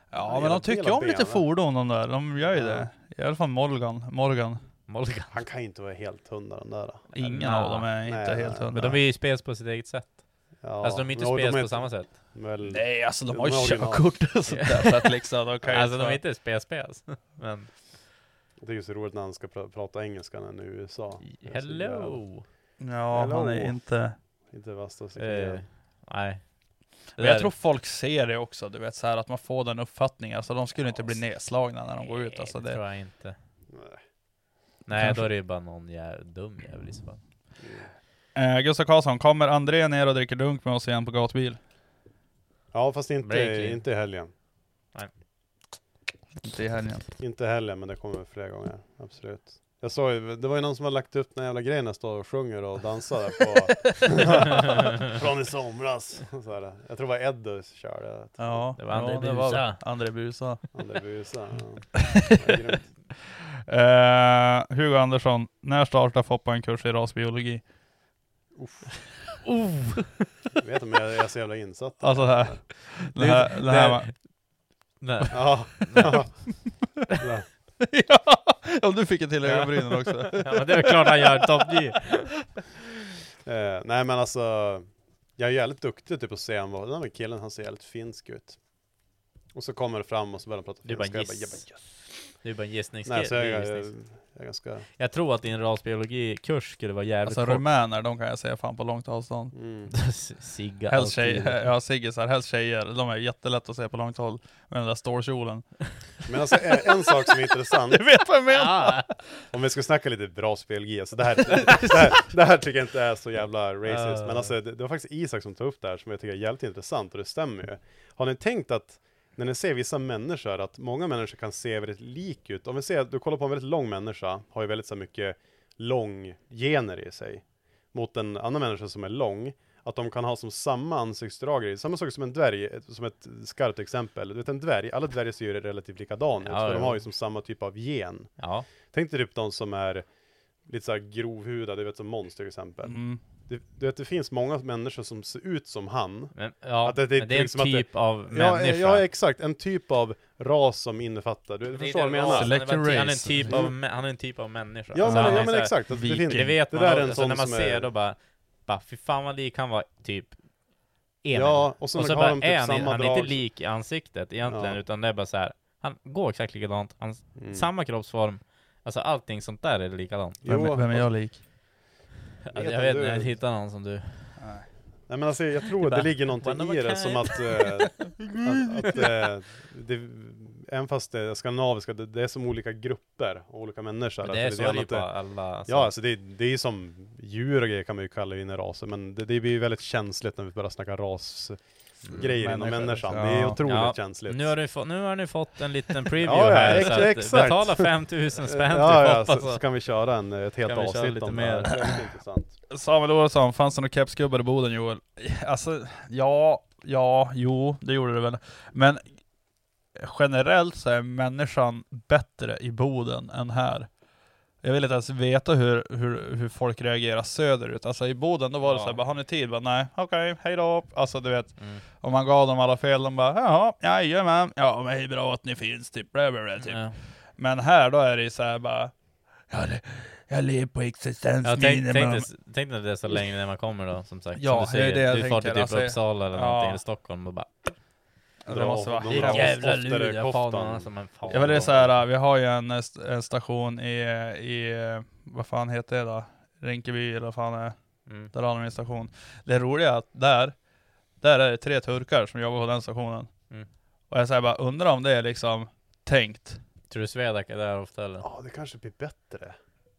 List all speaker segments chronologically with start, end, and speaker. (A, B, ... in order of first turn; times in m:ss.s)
0:00.1-0:04.6 A
0:00.2-0:01.5 B
0:02.4-0:02.9 B
0:04.9-0:05.4 C
0:05.3-0:07.1 B
0:07.1-0:07.9 C
0:07.1-0:09.0 A
0:08.0-0:09.0 B
0:08.7-0:12.1 C
0:10.6-0:14.3 B
0:12.6-0:16.2 A
0:14.5-0:15.1 C
0:15.6-0:17.8 C
0:18.6-0:22.3 B
0:21.2-0:22.4 C
0:22.8-0:24.2 A
0:23.1-0:25.6 B
0:25.2-0:26.5 C
0:27.1-0:27.5 C
0:27.2-0:32.8 A
0:32.0-0:33.4 C
0:33.7-0:34.0 B
0:34.8-0:37.2 C
0:34.9-0:35.3 A
0:37.6-0:37.9 B
0:38.3-0:41.6 A
0:42.7-0:44.3 B
0:43.2-0:43.8 C
0:46.4-0:47.0 A
0:47.2-0:58.6 B
0:58.4-1:00.6 A
0:58.8-0:59.8 C
1:00.7-1:02.9 B
1:02.0-1:02.4 A
1:03.7-1:07.6 A
1:08.5-1:08.9 B
1:09.4-1:10.2 A
1:10.6-1:12.6 B
1:12.0-1:14.2 A
1:13.1-1:14.3 C
1:15.0-1:16.2 C
1:15.3-1:16.6 B
1:17.2-1:17.5 B
1:17.8-1:21.5 A
1:19.4-1:22.3 C
1:23.4-1:28.6 B
1:29.5-1:31.9 B
1:30.8-1:33.9 C
1:33.0-1:34.9 B
1:35.0-1:37.6 C
1:37.2-1:39.5 A
1:39.5-1:39.9 B
1:39.9-1:41.7 C
1:40.9-1:45.9 A
1:46.2-1:48.0 B
1:47.9-1:49.2 A
1:48.5-1:49.1 C
1:49.5-2:20.0 B
1:51.7-1:51.9 A
1:53.9-1:54.5 C
2:16.4-2:17.0 C
2:18.4-2:18.7 C
2:20.6-2:32.5 B
2:22.8-2:23.2 A
2:26.3-2:29.1 C
2:31.7-2:40.4 C
2:32.3-2:33.6 A
2:33.5-2:33.8 B
2:34.9-2:37.9 B
2:35.0-2:36.5 A
2:41.2-2:50.4 C
2:41.3-2:43.4 B
2:44.5-2:44.8 B
2:47.4-2:47.7 B
2:50.4-2:51.2 B
2:50.4-2:51.4 A
2:52.4-2:54.5 C
2:52.5-2:53.4 B
2:54.4-2:54.7 A
2:55.1-3:14.6 B
2:55.8-2:58.2 C
3:04.2-3:05.9 C
3:12.4-3:13.6 A
3:13.6-3:19.6 C
3:16.2-3:22.6 B
3:16.5-3:16.8 A
3:20.6-3:21.8 C
3:22.7-3:29.0 A
3:30.0-3:33.9 A
3:34.6-3:48.9 A
3:38.6-3:39.0 C
3:41.6-3:41.8 C
3:46.6-3:47.0 C
3:49.5-3:52.3 A
3:51.4-3:57.8 C
3:54.4-3:56.8 A
3:58.4-3:59.8 A
3:58.5-4:02.0 B
3:59.1-4:02.0 C
4:01.3-4:10.6 A
4:08.0-4:08.3 C
4:11.2-4:13.3 A
4:14.1-4:16.6 A
4:16.9-4:18.2 C
4:18.2-4:19.6 B